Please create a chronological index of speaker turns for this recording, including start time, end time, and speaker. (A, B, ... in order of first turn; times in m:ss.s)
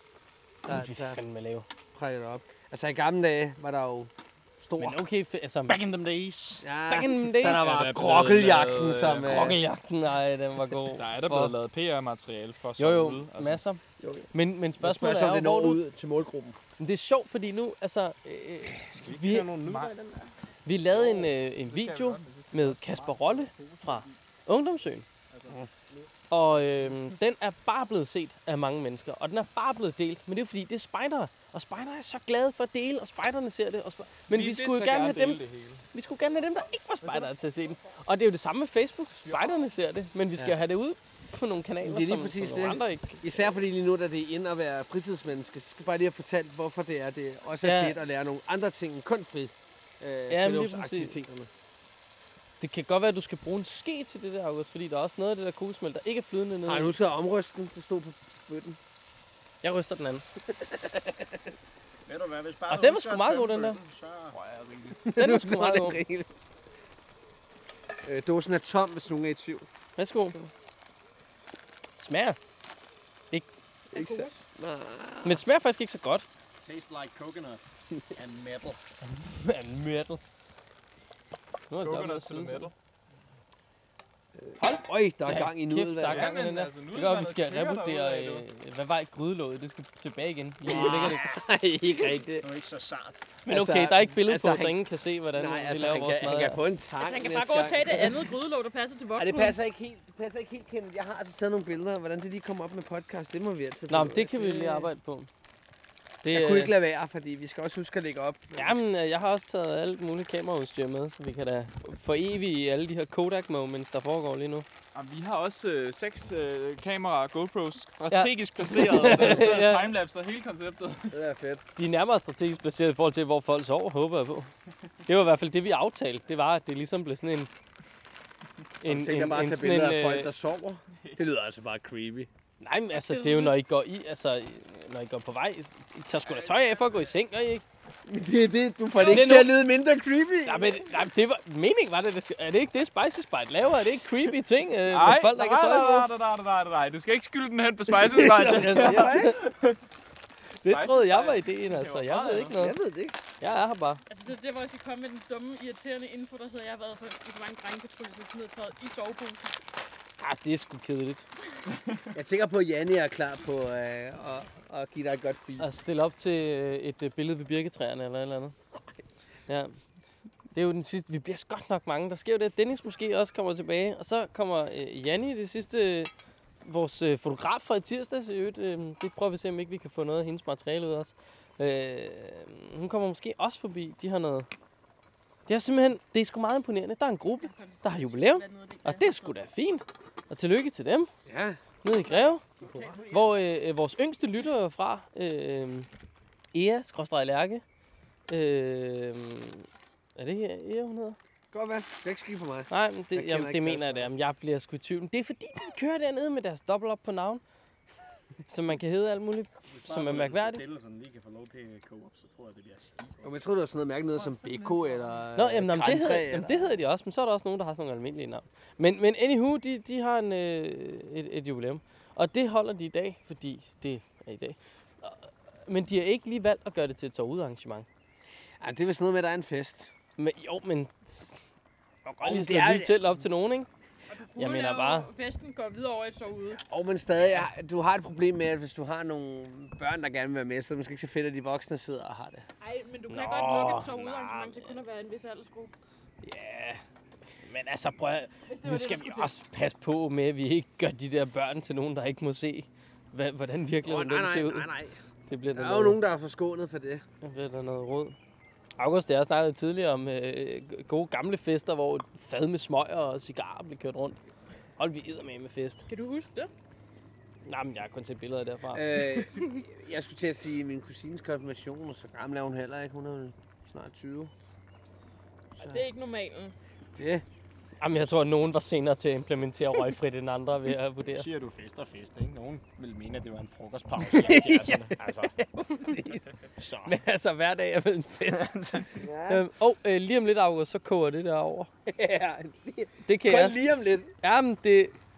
0:00.6-0:01.2 A
0:00.7-0:01.6 B
0:01.9-0:05.0 A
0:04.8-0:05.8 B
0:05.7-0:06.6 C
0:06.6-0:09.6 A
0:06.9-0:07.8 B
0:07.4-0:09.6 D
0:09.2-0:11.6 B
0:10.9-0:13.6 D
0:12.8-0:13.8 B
0:14.0-0:14.3 A
0:14.3-0:15.8 B
0:14.8-0:16.6 A
0:16.8-0:19.5 B
0:18.8-0:20.3 C
0:19.6-0:20.0 D
0:20.6-0:25.0 B
0:20.9-0:24.1 D
0:23.6-0:24.0 C
0:25.3-0:25.6 D
0:26.3-0:43.2 B
0:34.3-0:35.8 D
0:39.2-0:39.7 D
0:41.8-0:51.5 A
0:47.6-0:48.0 B
0:50.3-0:51.2 B
0:52.6-0:56.9 B
0:56.6-0:58.8 A
0:59.6-1:00.2 B
1:00.5-1:01.4 A
1:02.1-1:04.4 C
1:02.7-1:03.8 B
1:04.3-1:05.0 D
1:05.0-1:06.3 A
1:05.1-1:06.0 B
1:08.0-1:09.7 A
1:10.0-1:10.5 B
1:12.0-1:12.4 B
1:13.9-1:14.4 E
1:13.9-1:15.4 A
1:15.2-1:16.2 B
1:16.6-1:17.6 C
1:18.1-1:18.8 C
1:19.2-1:20.2 B
1:21.7-1:22.7 B
1:21.8-1:22.7 D
1:24.4-1:26.3 A
1:25.2-1:31.2 B
1:26.0-1:28.4 D
1:30.6-1:32.5 A
1:30.6-1:31.2 C
1:32.4-1:33.4 C
1:33.4-1:36.6 B
1:33.5-1:34.8 A
1:35.3-1:38.4 A
1:37.0-1:39.6 E
1:39.1-1:44.9 A
1:43.9-1:45.3 B
1:46.2-1:46.8 B
1:46.3-1:48.8 A
1:48.5-1:54.6 B
1:54.9-2:01.1 D
1:58.1-1:59.9 B
2:01.1-2:01.6 A
2:01.8-2:04.5 B
2:05.0-2:07.5 B
2:08.8-2:10.3 B
2:08.8-2:12.3 A
2:12.6-2:17.6 B
2:13.0-2:13.6 E
2:18.0-2:20.8 A
2:19.0-2:19.5 B
2:19.0-2:19.3 E
2:20.4-2:26.1 B
2:24.9-2:29.8 D
2:27.9-2:29.5 B
2:28.7-2:29.4 A
2:30.5-2:32.7 D
2:30.6-2:32.7 B
2:32.6-2:33.2 A
2:33.4-2:34.0 B
2:34.1-2:39.6 E
2:40.2-2:41.2 B
2:42.1-2:45.7 A
2:45.6-2:48.5 B
2:49.5-2:49.8 B
2:50.5-2:56.1 B
2:56.6-3:04.5 B
3:05.5-3:11.1 B
3:07.3-3:09.4 E
3:11.2-3:11.6 A
3:11.8-3:12.4 B
3:11.9-3:13.5 E
3:12.6-3:13.0 A
3:13.1-3:15.9 B
3:16.5-3:17.6 B
3:18.3-3:21.2 B
3:21.5-3:24.1 A
3:22.7-3:27.4 B
3:28.4-3:30.7 B
3:29.7-3:33.3 C
3:33.2-3:36.7 A
3:34.1-3:35.2 D
3:35.4-3:47.8 B
3:48.6-3:49.9 A
3:50.2-3:51.4 B
3:52.0-3:53.7 B
3:52.2-3:53.0 A
3:54.1-3:56.6 E
3:54.4-3:55.1 B
3:56.6-4:02.5 A
3:57.2-3:57.5 B
4:02.6-4:05.7 E
4:03.1-4:04.4 B
4:04.0-4:04.4 C
4:06.2-4:14.7 B
4:08.4-4:09.4 E
4:13.8-4:15.0 A
4:15.3-4:16.0 B
4:15.5-4:17.0 A
4:17.2-4:18.2 B
4:18.8-4:24.2 B
4:24.8-4:25.8 B
4:25.9-4:26.5 E
4:27.4-4:29.2 B
4:28.7-4:34.3 A
4:35.6-4:36.5 E
4:37.0-4:37.2 A
4:37.8-4:41.3 B
4:41.1-4:45.3 C
4:44.0-4:48.6 B
4:46.6-4:47.0 C
4:48.3-4:48.9 C
4:49.0-4:49.4 A
4:49.3-4:51.7 B
4:51.9-4:54.1 A
4:53.0-4:53.6 B
4:54.2-4:55.0 B